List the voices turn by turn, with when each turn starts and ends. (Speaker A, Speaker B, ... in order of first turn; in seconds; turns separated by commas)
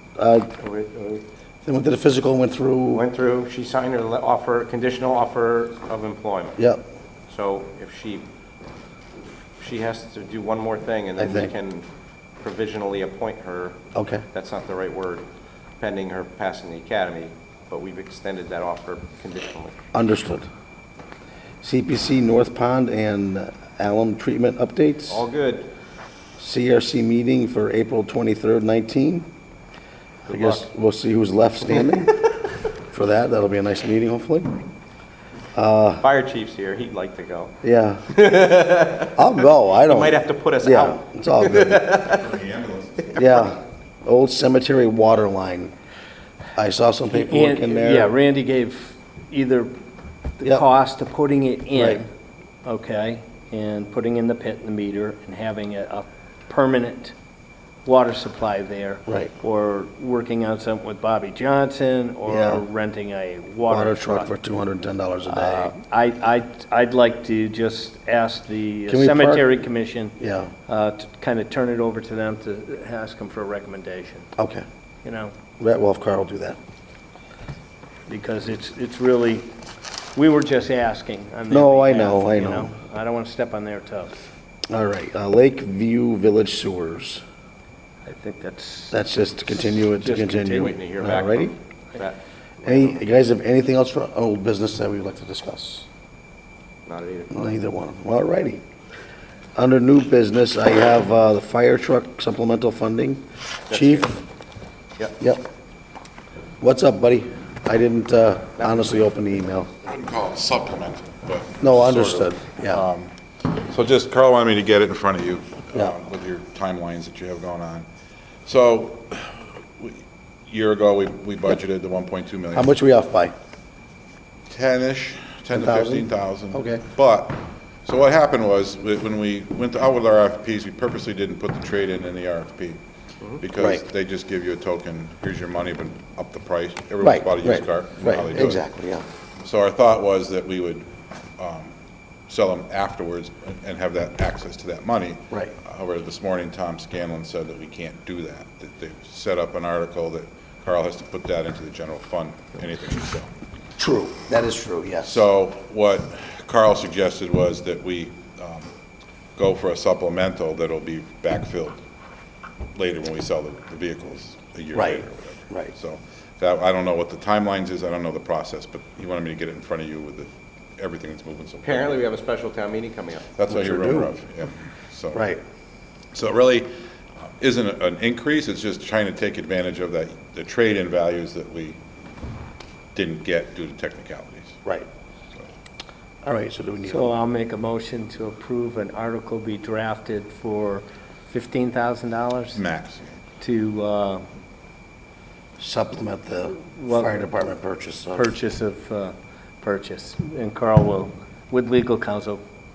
Speaker A: 0.2-0.5, Speaker B: 0.6-1.2, Speaker A: 1.6-3.0, Speaker B: 2.9-6.6, Speaker B: 7.3-8.3, Speaker B: 9.6-11.9, Speaker A: 11.2-11.5, Speaker B: 12.4-13.8, Speaker A: 13.9-14.2, Speaker B: 14.3-15.2, Speaker B: 15.8-19.8, Speaker A: 19.9-20.5, Speaker A: 21.6-25.2, Speaker B: 25.1-25.7, Speaker A: 26.4-29.3, Speaker B: 30.2-30.7, Speaker A: 30.3-32.2, Speaker A: 32.9-34.5, Speaker A: 35.5-36.0, Speaker B: 36.0-37.5, Speaker A: 37.6-38.2, Speaker B: 38.1-39.2, Speaker A: 39.1-41.9, Speaker B: 39.7-42.4, Speaker C: 42.1-43.2, Speaker A: 43.2-45.7, Speaker A: 46.6-48.1, Speaker D: 47.1-49.7, Speaker D: 50.4-52.1, Speaker A: 51.8-52.0, Speaker D: 52.6-57.1, Speaker D: 57.9-64.3, Speaker A: 59.1-59.3, Speaker A: 62.3-62.7, Speaker A: 63.7-65.7, Speaker D: 65.3-70.2, Speaker A: 68.9-69.5, Speaker A: 70.2-70.5, Speaker D: 70.7-74.3, Speaker A: 74.4-74.6, Speaker D: 75.0-75.3, Speaker A: 75.6-76.6, Speaker D: 78.1-79.5, Speaker D: 80.2-84.1, Speaker A: 81.5-82.8, Speaker A: 84.7-87.2, Speaker D: 88.1-89.0, Speaker A: 88.9-91.5, Speaker D: 89.7-90.7, Speaker B: 90.4-93.0, Speaker A: 92.6-95.9, Speaker B: 96.8-97.6, Speaker A: 97.3-98.6, Speaker A: 99.6-104.2, Speaker B: 103.7-104.2, Speaker A: 106.6-109.7, Speaker B: 108.6-108.9, Speaker C: 109.8-117.9, Speaker A: 111.6-112.8, Speaker C: 118.5-122.7, Speaker A: 122.5-123.3, Speaker C: 124.5-132.8, Speaker A: 125.5-126.8, Speaker C: 133.4-138.6, Speaker A: 133.6-133.8, Speaker A: 137.0-139.1, Speaker C: 139.4-141.7, Speaker C: 142.3-153.3, Speaker A: 153.8-155.2, Speaker C: 155.0-158.7, Speaker C: 159.4-161.8, Speaker C: 162.7-172.0, Speaker A: 164.8-165.7, Speaker B: 171.6-173.3, Speaker C: 173.4-175.2, Speaker A: 173.5-174.1, Speaker A: 175.1-175.4, Speaker C: 176.1-181.8, Speaker C: 182.9-184.6, Speaker A: 186.2-187.1, Speaker D: 186.9-192.6, Speaker C: 192.5-193.2, Speaker D: 193.4-194.2, Speaker A: 195.6-198.3, Speaker D: 196.8-197.3, Speaker D: 198.2-202.4